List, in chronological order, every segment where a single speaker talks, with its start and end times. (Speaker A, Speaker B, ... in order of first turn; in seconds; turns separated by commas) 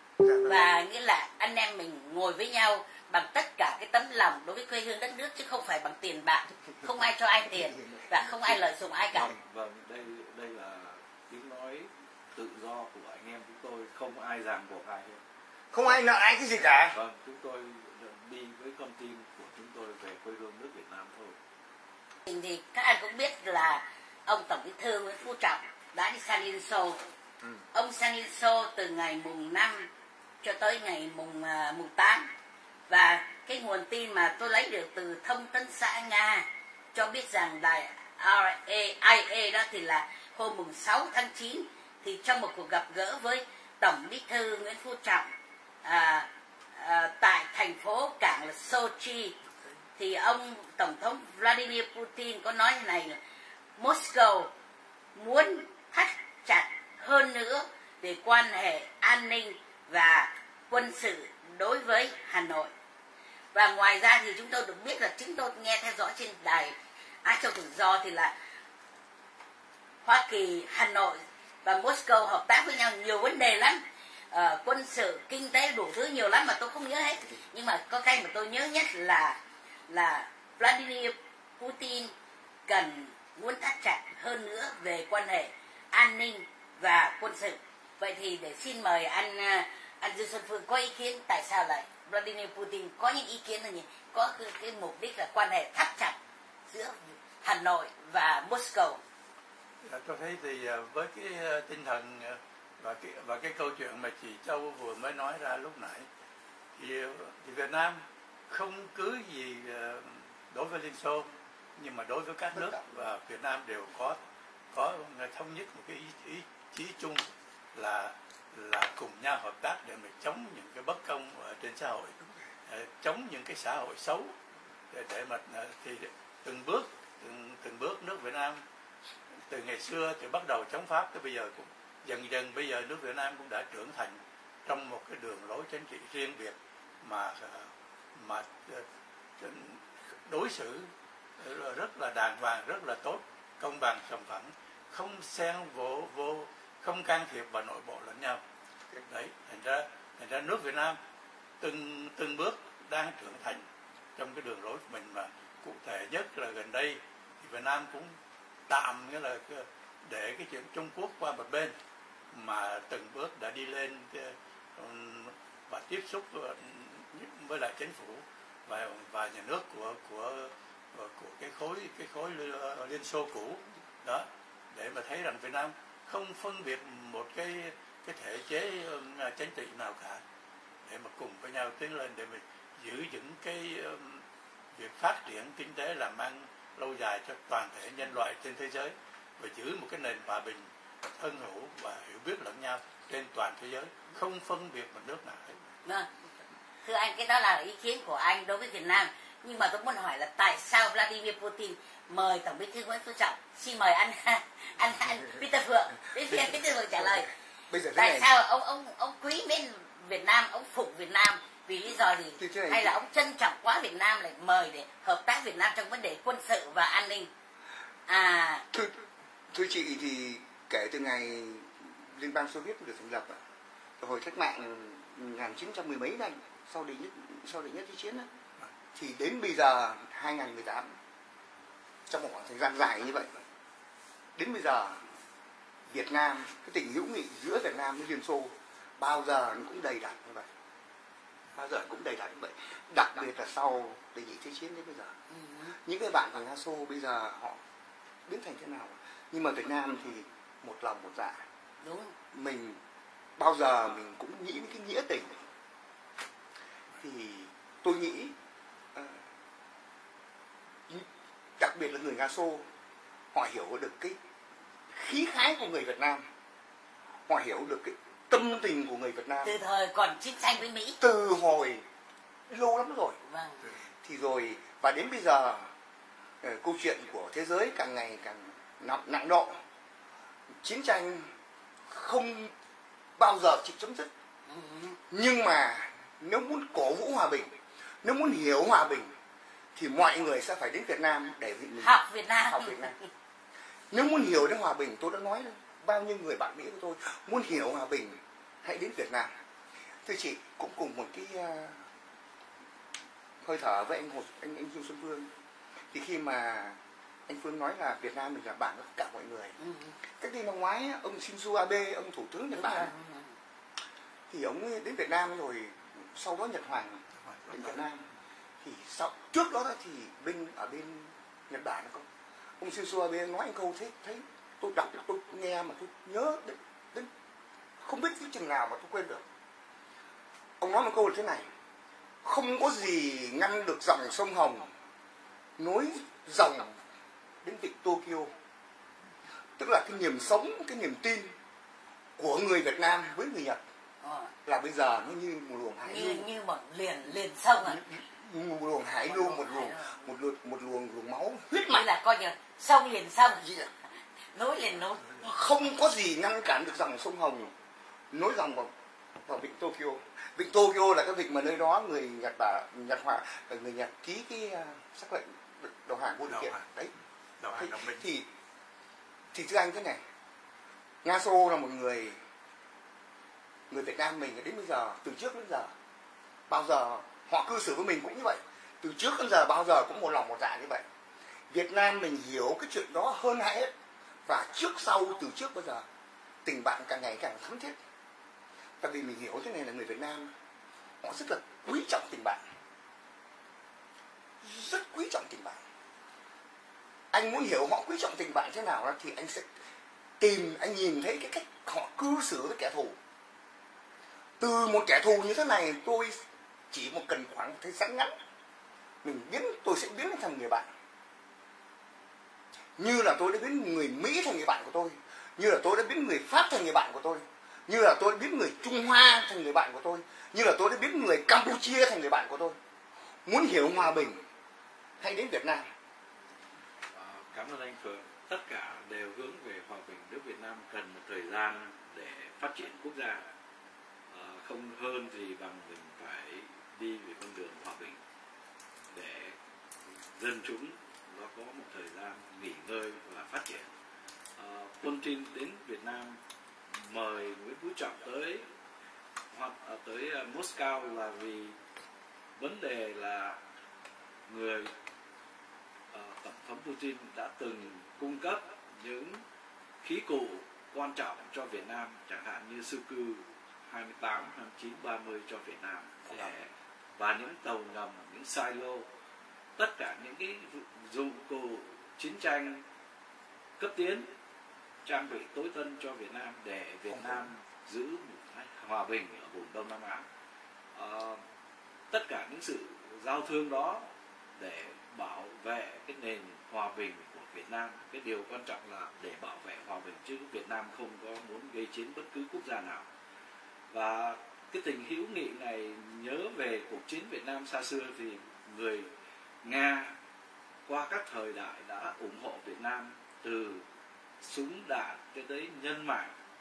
Speaker A: 0.2-0.8, Speaker B: 0.4-9.3, Speaker C: 8.0-8.5, Speaker C: 9.1-15.2, Speaker A: 15.7-17.0, Speaker C: 16.8-21.4, Speaker B: 22.3-27.0, Speaker B: 27.7-29.9, Speaker B: 30.4-32.3, Speaker B: 32.9-45.3, Speaker B: 45.8-49.4, Speaker B: 50.0-53.2, Speaker B: 53.8-54.5, Speaker B: 55.1-62.7, Speaker B: 63.5-68.3, Speaker B: 70.0-82.1, Speaker B: 82.7-96.2, Speaker B: 96.7-99.0, Speaker D: 99.8-106.1, Speaker D: 106.8-114.2, Speaker A: 112.5-112.8, Speaker D: 114.7-122.2, Speaker D: 122.7-124.3, Speaker D: 124.9-128.6, Speaker D: 129.5-138.9, Speaker D: 139.4-148.4, Speaker D: 149.1-151.0, Speaker D: 151.6-158.2, Speaker D: 158.7-161.8, Speaker D: 162.3-180.2, Speaker D: 180.8-195.7, Speaker B: 196.8-207.3, Speaker A: 206.2-208.3, Speaker B: 208.0-217.3, Speaker A: 212.4-213.0, Speaker B: 218.1-218.7, Speaker A: 219.5-223.4, Speaker A: 224.0-228.3, Speaker A: 228.9-230.9, Speaker A: 232.1-233.4, Speaker A: 234.4-235.0, Speaker A: 235.9-240.5, Speaker A: 241.6-245.1, Speaker B: 245.3-245.8, Speaker A: 245.8-247.6, Speaker A: 248.3-251.4, Speaker B: 251.8-252.2, Speaker A: 252.3-252.8, Speaker A: 253.4-255.4, Speaker A: 257.0-258.3, Speaker A: 258.9-259.2, Speaker A: 261.6-262.6, Speaker A: 263.3-264.2, Speaker A: 264.9-266.2, Speaker A: 267.3-269.6, Speaker B: 269.4-271.0, Speaker A: 271.0-271.8, Speaker A: 272.5-273.2, Speaker B: 273.2-273.6, Speaker A: 274.0-275.7, Speaker A: 276.4-279.6, Speaker A: 280.6-281.3, Speaker A: 281.9-282.5, Speaker A: 283.2-284.1, Speaker B: 284.5-285.0, Speaker A: 285.1-287.5, Speaker A: 288.0-289.1, Speaker A: 289.8-293.0, Speaker B: 291.8-292.9, Speaker A: 293.9-299.3, Speaker A: 300.1-301.8, Speaker A: 303.4-305.3, Speaker A: 305.9-309.6, Speaker B: 309.6-310.0, Speaker A: 310.2-312.9, Speaker B: 312.5-313.3, Speaker A: 314.3-318.0, Speaker D: 317.2-317.8, Speaker A: 318.6-322.1, Speaker A: 322.6-327.1, Speaker A: 327.8-329.2, Speaker A: 330.6-331.4, Speaker A: 332.2-334.7, Speaker A: 335.6-336.8, Speaker A: 337.4-338.3, Speaker A: 339.6-341.3, Speaker A: 342.2-343.6, Speaker B: 344.0-344.3, Speaker A: 344.4-346.3, Speaker B: 345.9-347.8, Speaker A: 347.6-351.9, Speaker B: 349.1-349.9, Speaker B: 351.7-353.4, Speaker A: 353.4-353.7, Speaker B: 354.3-355.2, Speaker A: 355.1-357.5, Speaker A: 358.1-358.7, Speaker A: 359.2-366.9, Speaker D: 366.3-366.6, Speaker D: 367.4-368.1, Speaker A: 367.5-368.3, Speaker A: 369.3-370.0, Speaker A: 371.0-372.2, Speaker A: 373.7-375.7, Speaker A: 376.5-380.8, Speaker A: 381.5-383.7, Speaker A: 384.3-385.8, Speaker A: 386.4-387.8, Speaker A: 388.8-390.3, Speaker A: 391.0-392.4, Speaker A: 394.4-395.6, Speaker A: 397.1-399.5, Speaker A: 400.2-403.0, Speaker A: 404.4-406.2, Speaker A: 406.7-408.1, Speaker A: 409.0-410.7, Speaker A: 412.8-422.6, Speaker A: 423.3-424.2, Speaker A: 425.0-425.7, Speaker C: 426.9-433.2, Speaker C: 434.1-438.0, Speaker C: 438.9-439.4, Speaker C: 440.2-443.7, Speaker C: 444.4-446.2, Speaker C: 446.7-448.4, Speaker C: 449.3-451.6, Speaker C: 452.4-453.4, Speaker C: 454.3-454.7, Speaker C: 455.9-459.2, Speaker C: 459.8-468.9, Speaker C: 469.6-472.6, Speaker C: 473.6-474.1, Speaker C: 474.9-480.1, Speaker C: 480.7-481.2, Speaker C: 481.9-492.9, Speaker C: 493.7-498.9, Speaker C: 499.4-500.0, Speaker C: 500.7-503.6, Speaker C: 504.2-506.1